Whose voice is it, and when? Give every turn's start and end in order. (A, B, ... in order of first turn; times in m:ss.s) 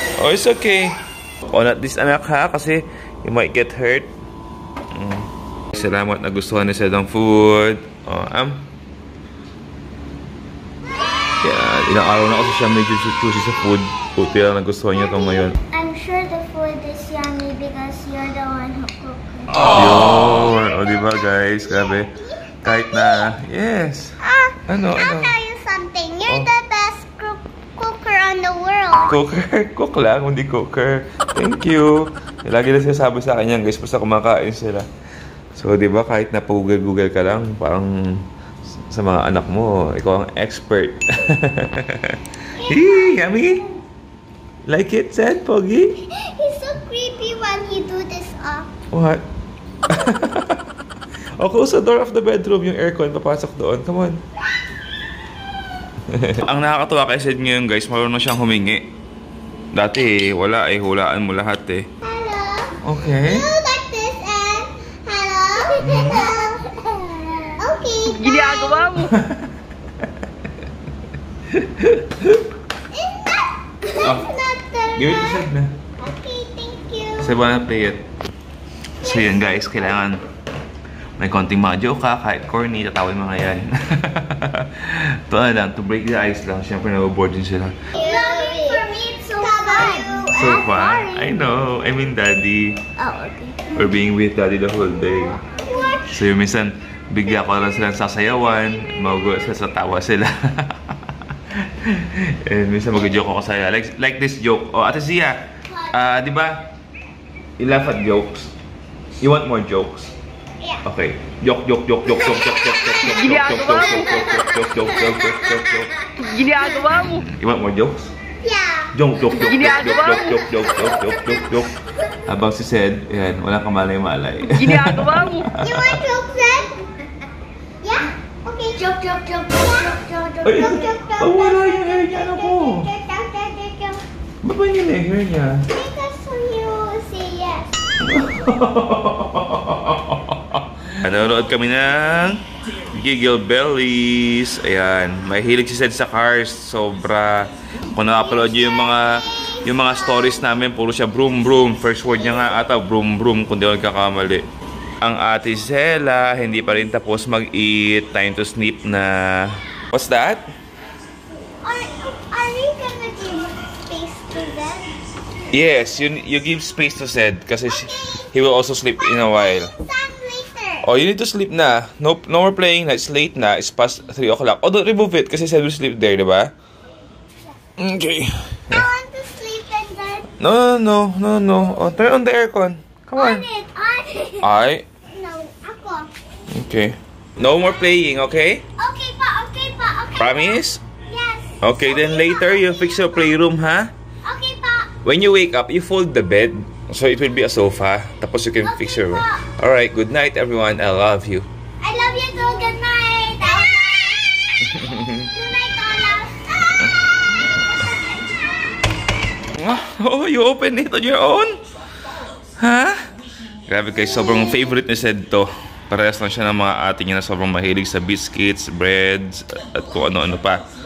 0:00.2-0:04.1 A
0:04.9-0:08.7 A
0:11.4-0:15.6 A
0:15.0-0:19.8 B
0:19.6-0:25.4 A
0:21.7-0:23.3 B
0:24.2-0:29.2 B
0:29.1-0:34.9 A
0:35.6-0:38.3 A
0:38.9-0:43.6 A
0:42.5-0:43.7 B
0:44.7-0:45.9 A
0:46.1-0:48.7 B
0:48.9-0:49.2 A
0:49.9-0:50.7 A
0:51.4-0:54.2 A
0:56.1-0:58.9 A
0:59.7-1:01.9 A
1:02.0-1:08.9 B
1:02.8-1:03.5 A
1:05.8-1:06.3 A
1:08.1-1:09.1 C
1:09.0-1:09.5 A
1:11.5-1:12.4 A
1:12.9-1:15.5 B
1:14.0-1:14.3 A
1:15.0-1:15.7 A
1:16.0-1:17.4 B
1:17.2-1:18.1 A
1:19.0-1:20.2 A
1:21.2-1:27.8 A
1:28.0-1:31.6 B
1:30.3-1:32.8 A
1:33.0-1:33.9 B
1:33.7-1:35.4 A
1:35.4-1:36.1 B
1:36.0-1:46.7 A
1:47.6-1:48.5 A
1:49.2-1:50.1 A
1:50.8-1:55.9 A
1:52.3-1:52.8 B
1:52.9-1:54.4 C
1:54.3-1:56.9 B
1:56.2-1:57.3 C
1:56.9-1:58.1 A
1:58.4-1:58.9 B
1:58.9-2:06.0 A
1:59.3-2:00.4 C
2:00.0-2:02.1 B
2:04.5-2:05.6 C
2:05.6-2:06.9 B
2:07.8-2:14.0 B
2:10.4-2:12.9 A
2:14.4-2:15.7 A
2:15.7-2:17.8 B
2:18.0-2:34.5 A
2:35.0-2:40.4 A
2:41.6-2:44.9 B
2:45.5-2:49.7 A
2:49.1-2:50.9 B
2:50.8-2:56.5 A
2:57.8-2:58.9 A
2:58.7-3:00.4 B
3:00.4-3:03.5 A
3:03.2-3:04.5 B
3:04.4-3:04.9 A
3:05.1-3:06.1 B
3:06.5-3:08.6 A
3:08.8-3:13.2 B
3:10.2-3:10.8 A
3:11.6-3:13.9 A
3:14.2-3:15.0 B
3:15.0-3:21.5 A
3:18.6-3:19.5 B
3:21.8-3:28.9 B
3:24.7-3:25.3 A
3:29.6-3:31.6 A
3:32.6-3:33.0 A
3:33.7-3:40.7 A